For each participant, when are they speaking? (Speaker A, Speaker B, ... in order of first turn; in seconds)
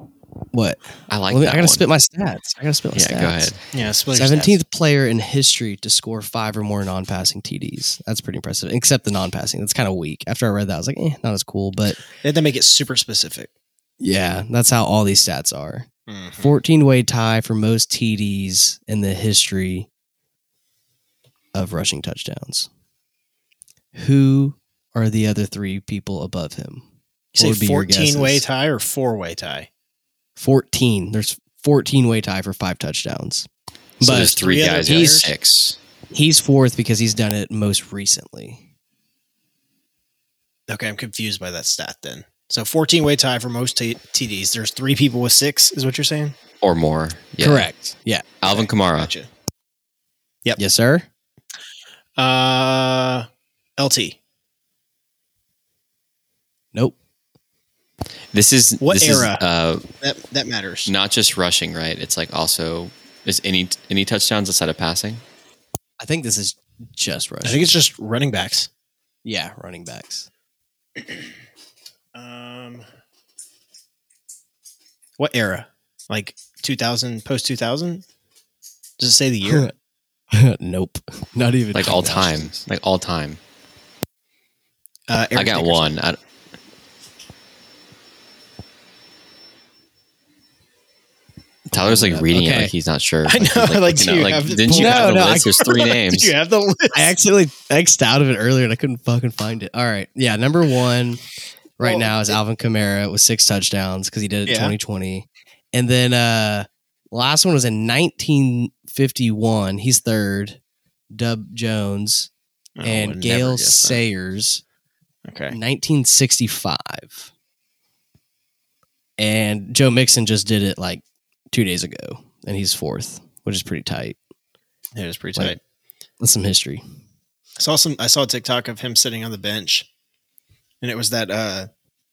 Speaker A: 0.5-3.5, 4.1-12.0, 14.0-15.9, 16.4-19.9, 21.5-22.7, 23.9-26.8, 27.4-28.4, 30.4-33.5, 34.0-35.2, 36.1-38.6, 47.4-48.2, 50.6-51.1, 66.0-67.7, 69.2-70.3, 79.4-79.7, 80.3-82.5, 91.7-92.7, 94.7-95.6, 96.9-101.2, 101.8-110.6, 111.1-112.3, 112.8-114.6, 115.5-117.3, 119.2-124.2, 126.2-126.8
Speaker B: 1.1-1.9, 2.9-3.6, 34.0-35.8, 46.6-47.7, 48.4-49.1, 58.3-59.8, 60.9-65.2, 81.7-83.4, 85.3-86.2, 91.7-96.3
Speaker C: 3.7-4.6, 12.2-13.5, 16.1-16.5, 27.3-29.7, 34.2-35.3, 40.7-46.4, 48.5-49.3, 52.2-53.3, 53.8-54.2, 58.8-59.4, 60.0-60.9, 67.4-68.7, 72.1-72.8, 75.2-78.0, 79.0-79.7, 82.1-82.6, 85.1-86.0, 93.2-97.1, 101.8-102.4, 104.5-104.7, 112.8-114.0, 115.2-115.6, 124.9-125.6, 127.6-129.9, 130.8-131.7